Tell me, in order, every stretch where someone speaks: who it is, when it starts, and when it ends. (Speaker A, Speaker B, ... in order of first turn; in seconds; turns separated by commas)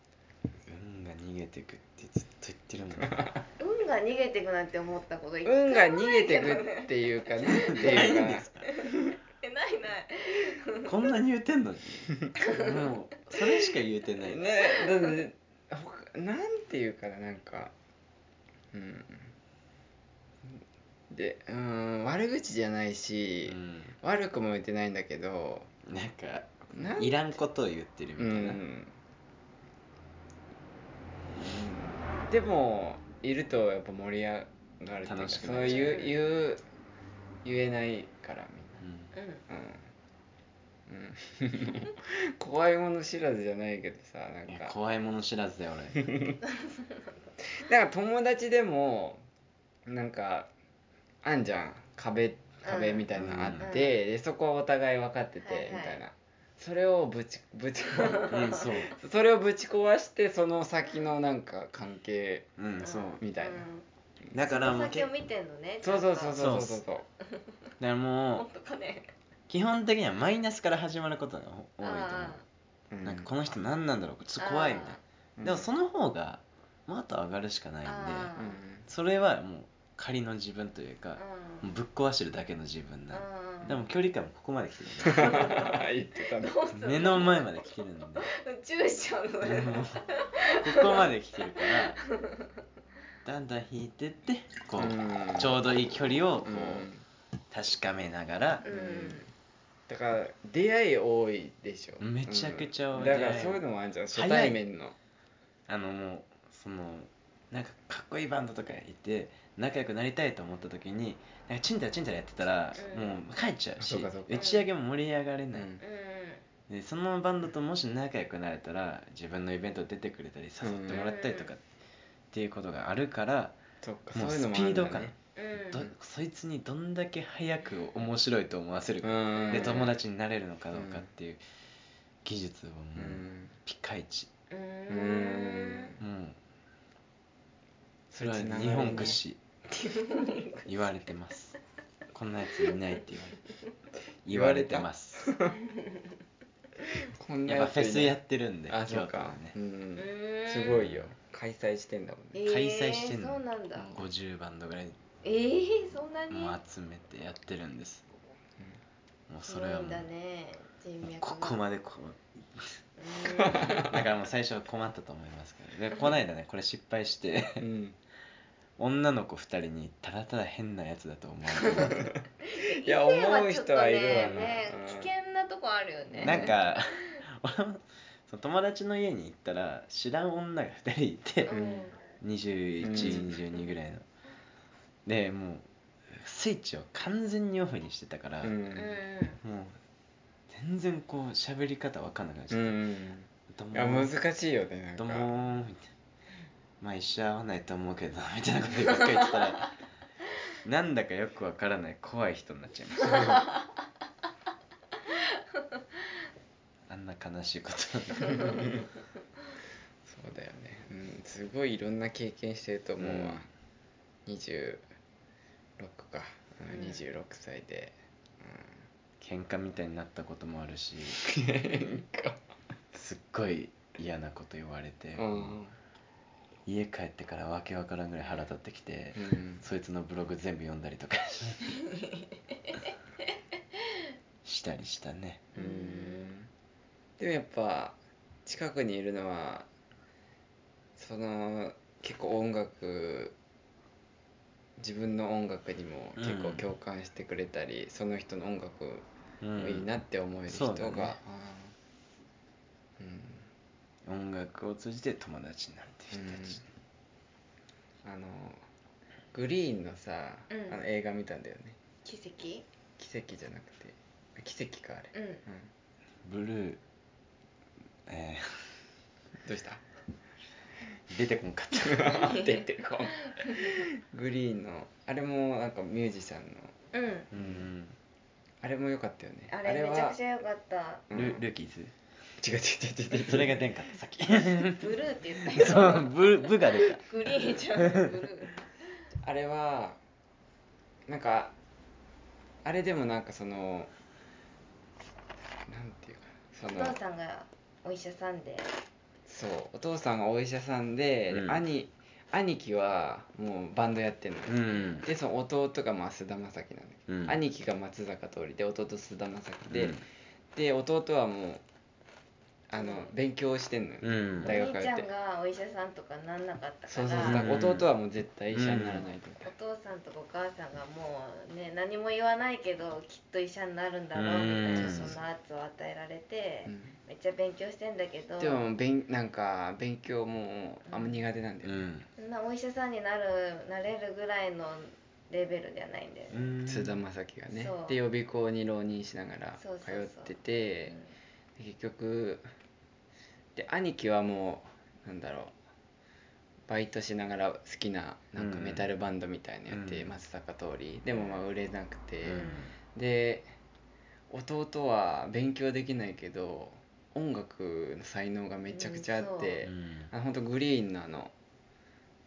Speaker A: 0.7-3.3, Speaker B: 3.0-3.4, Speaker C: 3.6-11.1, Speaker B: 5.5-8.6, Speaker A: 7.5-8.6, Speaker A: 10.8-14.4, Speaker C: 12.4-12.7, Speaker B: 14.3-17.7, Speaker C: 14.6-15.2, Speaker B: 18.7-19.3, Speaker B: 21.1-25.7, Speaker A: 23.5-23.9, Speaker A: 25.9-28.6, Speaker B: 26.7-27.4, Speaker B: 28.2-28.9, Speaker B: 31.4-36.6, Speaker A: 35.0-36.0, Speaker C: 35.6-36.2, Speaker B: 37.4-38.8, Speaker A: 38.8-39.1, Speaker C: 39.1-39.4, Speaker B: 39.5-39.9, Speaker B: 40.9-44.8, Speaker A: 44.5-46.0, Speaker B: 47.6-49.2, Speaker B: 49.9-50.5, Speaker B: 51.2-63.7, Speaker C: 52.6-53.1, Speaker A: 53.2-53.7, Speaker C: 53.6-54.0, Speaker C: 55.4-56.0, Speaker C: 58.1-58.6, Speaker A: 58.3-58.9, Speaker A: 62.6-63.2, Speaker C: 62.8-63.9, Speaker A: 64.3-65.1, Speaker C: 64.5-66.4, Speaker B: 65.8-67.0, Speaker A: 66.3-66.8, Speaker A: 67.8-68.5, Speaker C: 68.3-69.1, Speaker A: 69.5-72.4, Speaker C: 71.8-72.4, Speaker B: 72.9-73.3, Speaker A: 73.0-78.3, Speaker C: 74.4-75.0, Speaker B: 75.4-75.7, Speaker C: 77.8-78.6, Speaker B: 78.3-78.9, Speaker A: 78.9-85.6, Speaker C: 81.2-81.7, Speaker C: 83.1-83.8, Speaker B: 85.0-86.6, Speaker C: 85.2-91.1, Speaker A: 86.7-88.3, Speaker A: 89.4-92.0, Speaker C: 91.7-92.4, Speaker A: 93.2-96.9, Speaker B: 94.8-95.6, Speaker B: 96.4-97.0, Speaker A: 97.5-98.7, Speaker B: 98.6-99.3, Speaker C: 98.7-99.3, Speaker B: 99.9-105.0, Speaker A: 102.0-104.6, Speaker A: 105.7-115.7, Speaker C: 112.8-113.2, Speaker B: 113.8-114.5, Speaker C: 114.3-114.7, Speaker B: 115.5-115.8, Speaker C: 115.8-116.4, Speaker A: 116.7-121.6, Speaker B: 120.6-121.0, Speaker C: 120.9-121.5, Speaker A: 122.3-123.6, Speaker B: 123.8-125.1, Speaker A: 124.1-125.2, Speaker C: 125.4-125.9, Speaker A: 125.7-131.4, Speaker B: 129.0-129.9, Speaker C: 129.3-129.9, Speaker B: 130.7-131.1, Speaker A: 132.2-134.3, Speaker B: 133.0-133.6, Speaker C: 134.5-135.9, Speaker B: 134.9-136.0, Speaker A: 136.0-136.4, Speaker B: 138.1-139.2, Speaker A: 138.2-139.4, Speaker C: 138.6-139.2, Speaker C: 139.7-140.9, Speaker A: 140.7-141.6, Speaker A: 142.1-143.4, Speaker A: 144.3-145.3, Speaker B: 144.3-145.6, Speaker B: 147.1-148.2, Speaker A: 147.5-149.5, Speaker B: 148.7-152.4, Speaker C: 150.0-150.8, Speaker A: 150.7-151.1, Speaker C: 152.3-154.0, Speaker A: 152.4-155.0, Speaker C: 155.2-156.6, Speaker A: 156.3-158.1, Speaker A: 159.3-160.1, Speaker C: 159.5-161.6, Speaker A: 161.1-162.8, Speaker C: 163.0-163.8, Speaker B: 163.4-163.8, Speaker A: 163.8-167.6, Speaker B: 167.6-168.0, Speaker A: 168.8-172.1, Speaker C: 171.6-171.9, Speaker B: 171.8-175.1, Speaker C: 172.5-176.6, Speaker A: 174.2-174.5, Speaker B: 176.1-176.5, Speaker A: 176.2-181.6, Speaker C: 181.5-182.0, Speaker B: 181.5-181.8, Speaker A: 182.2-184.1, Speaker B: 182.8-183.3, Speaker A: 185.1-188.6, Speaker B: 188.4-189.0, Speaker C: 188.7-189.4, Speaker A: 189.4-189.8, Speaker A: 190.5-192.8, Speaker B: 192.5-195.3, Speaker A: 193.5-194.2, Speaker A: 195.0-195.9, Speaker A: 196.8-199.8, Speaker A: 200.6-203.4, Speaker C: 203.2-203.4, Speaker A: 206.9-208.7, Speaker B: 208.3-208.7, Speaker B: 210.1-213.5, Speaker A: 213.0-213.4, Speaker B: 214.3-214.8, Speaker B: 215.8-218.8, Speaker C: 216.7-217.0, Speaker A: 219.2-221.3, Speaker B: 221.2-222.4, Speaker A: 222.9-225.6, Speaker B: 225.2-225.8, Speaker A: 226.7-231.7, Speaker B: 229.2-229.7, Speaker A: 234.4-235.5, Speaker C: 235.5-236.3, Speaker B: 235.6-236.5, Speaker B: 237.2-239.7, Speaker B: 241.0-243.4, Speaker B: 244.8-249.1, Speaker A: 246.2-246.7, Speaker A: 249.4-249.9, Speaker B: 249.6-251.7, Speaker A: 250.5-251.2, Speaker B: 253.0-253.4, Speaker A: 254.1-256.6, Speaker B: 256.1-256.6, Speaker B: 258.0-258.6, Speaker B: 259.3-261.8, Speaker C: 260.5-260.8, Speaker C: 262.0-262.7, Speaker B: 263.0-265.7, Speaker C: 265.1-265.4, Speaker A: 266.3-266.8, Speaker A: 268.1-268.7, Speaker B: 269.4-269.8, Speaker A: 271.1-272.4, Speaker B: 271.9-276.7, Speaker C: 272.1-273.8, Speaker C: 276.9-277.3, Speaker A: 277.3-278.0, Speaker B: 277.3-277.6, Speaker B: 278.6-280.2, Speaker C: 279.5-281.1, Speaker B: 281.1-281.4, Speaker A: 281.1-281.9, Speaker B: 282.4-283.6, Speaker A: 283.1-284.9, Speaker C: 284.6-288.7, Speaker A: 285.5-287.1, Speaker B: 289.2-290.0, Speaker B: 291.1-291.5, Speaker B: 292.6-293.9, Speaker B: 295.7-297.0, Speaker C: 296.7-298.7, Speaker B: 299.3-310.0, Speaker A: 301.3-301.6, Speaker A: 304.5-305.1, Speaker A: 307.1-307.4, Speaker A: 309.7-310.0, Speaker B: 310.6-311.6, Speaker B: 312.7-315.1, Speaker C: 312.7-313.1, Speaker A: 314.0-314.6, Speaker C: 314.4-317.5, Speaker B: 316.9-319.5, Speaker A: 317.2-317.9, Speaker A: 318.5-319.1, Speaker C: 319.4-328.6, Speaker A: 324.1-325.1, Speaker B: 324.7-325.2, Speaker B: 326.7-326.9, Speaker B: 328.4-331.9, Speaker C: 330.9-331.2, Speaker A: 331.6-332.1, Speaker C: 332.2-336.5, Speaker A: 336.3-337.0, Speaker B: 336.6-341.0, Speaker C: 337.5-338.0, Speaker C: 339.6-341.1, Speaker B: 341.6-342.5, Speaker B: 343.6-345.5, Speaker B: 346.7-353.5, Speaker A: 348.4-348.9, Speaker A: 349.7-350.1, Speaker C: 351.1-351.4, Speaker A: 352.2-352.8, Speaker C: 352.3-352.7, Speaker B: 354.3-361.3, Speaker C: 358.7-359.6, Speaker A: 359.6-360.1